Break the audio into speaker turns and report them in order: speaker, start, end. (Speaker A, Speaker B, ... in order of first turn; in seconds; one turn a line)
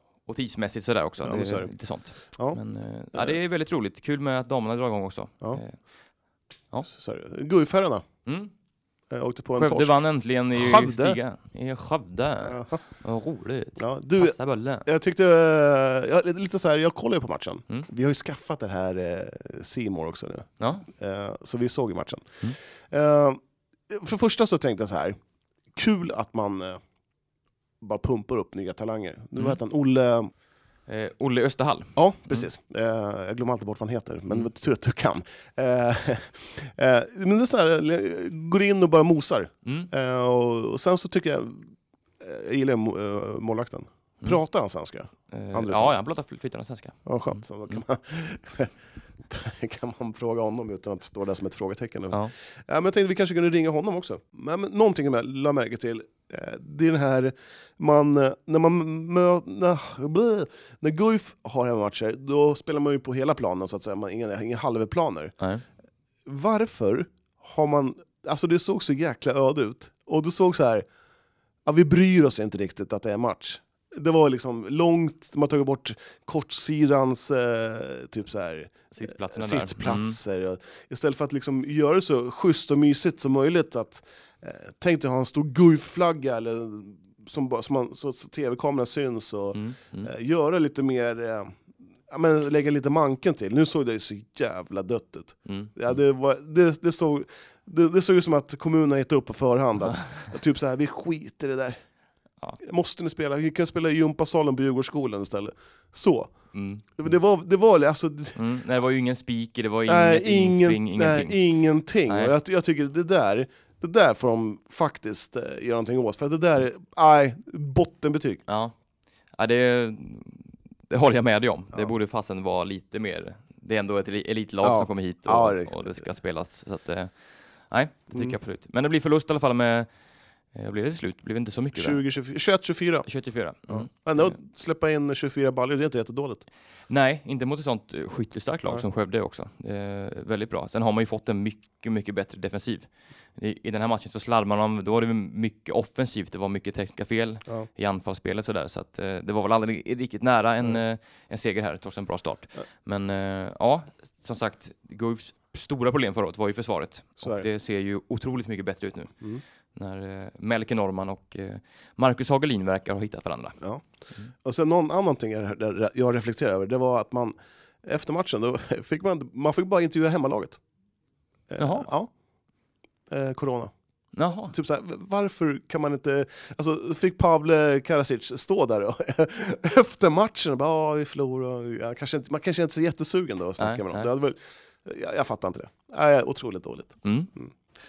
Speaker A: 0.3-5.8
Speaker B: 1.2-1.7
Speaker B: 2.2-2.6
Speaker B: 6.9-8.0
Speaker A: 8.3-8.5
Speaker B: 9.1-10.0
Speaker A: 9.6-14.9
Speaker B: 10.5-11.2
Speaker B: 12.5-12.8
Speaker B: 13.8-22.4
Speaker A: 20.6-20.9
Speaker B: 22.9-25.2
Speaker B: 25.7-26.8
Speaker B: 27.8-30.3
Speaker A: 30.9-32.5
Speaker B: 32.0-46.0
Speaker A: 39.6-39.9
Speaker A: 45.3-47.8
Speaker B: 47.1-48.7
Speaker B: 49.3-65.3
Speaker B: 66.3-70.9
Speaker B: 71.7-91.6
Speaker A: 78.9-80.2
Speaker A: 89.5-90.1
Speaker B: 92.1-101.8
Speaker A: 95.5-95.8
Speaker B: 102.6-106.3
Speaker A: 106.5-106.9
Speaker B: 107.0-108.4
Speaker A: 108.4-111.4
Speaker B: 109.9-118.4
Speaker A: 112.1-112.3
Speaker A: 118.5-118.7
Speaker A: 119.3-127.2
Speaker B: 124.6-126.0
Speaker A: 127.7-129.9
Speaker A: 130.5-132.0
Speaker B: 131.8-133.1
Speaker A: 133.1-134.4
Speaker B: 133.7-136.4
Speaker A: 136.9-159.1
Speaker B: 157.2-157.5
Speaker A: 159.8-163.6
Speaker B: 164.4-170.6
Speaker B: 171.5-172.1
Speaker A: 171.6-171.9
Speaker B: 173.1-173.7
Speaker A: 174.2-174.6
Speaker B: 174.5-187.5
Speaker A: 183.6-184.1
Speaker A: 187.0-187.3